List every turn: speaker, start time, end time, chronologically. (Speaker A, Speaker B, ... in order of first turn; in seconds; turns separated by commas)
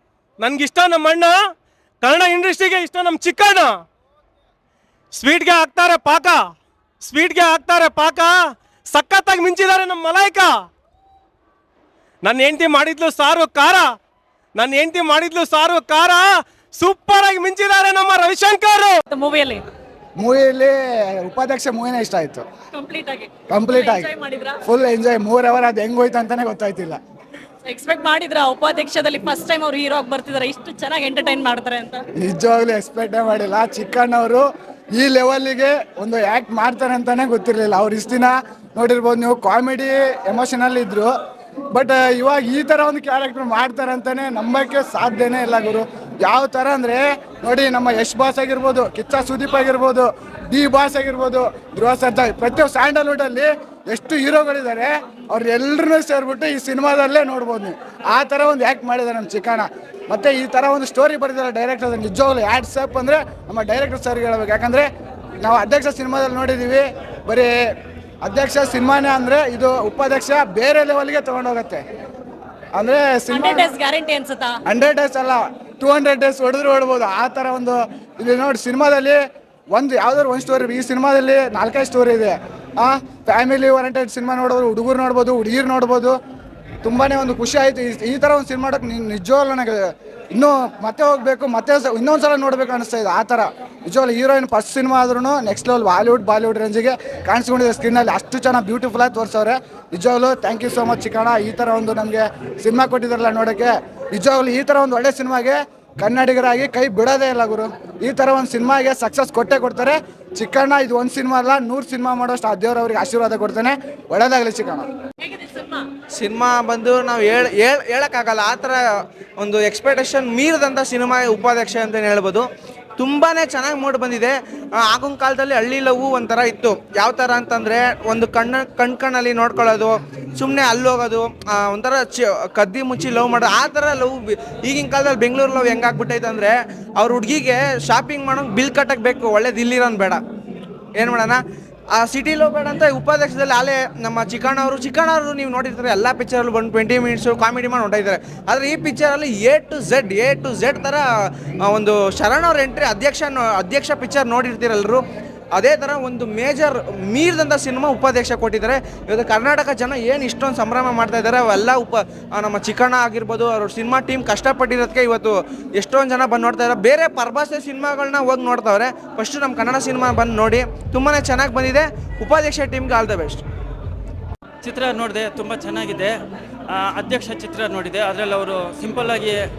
Speaker A: 0.4-1.3, Speaker A: 2.0-3.8, Speaker A: 5.1-6.4, Speaker A: 7.0-8.4, Speaker A: 8.9-10.5, Speaker A: 12.2-13.9, Speaker A: 14.5-19.0, Speaker B: 19.1-19.6, Speaker C: 20.2-22.4, Speaker B: 22.7-24.6, Speaker C: 23.5-24.1, Speaker C: 24.6-27.0, Speaker B: 27.6-32.0, Speaker C: 32.2-41.1, Speaker C: 41.7-64.9, Speaker C: 65.4-67.5, Speaker C: 68.2-71.8, Speaker C: 72.7-73.7, Speaker B: 73.3-74.5, Speaker C: 74.7-79.2, Speaker C: 79.7-86.2, Speaker C: 86.8-114.9, Speaker B: 115.2-115.9, Speaker D: 116.1-118.8, Speaker D: 119.4-140.2, Speaker D: 140.9-141.4, Speaker D: 141.9-151.0, Speaker D: 151.6-155.0, Speaker D: 155.5-173.4, Speaker E: 174.6-176.1, Speaker E: 176.7-179.4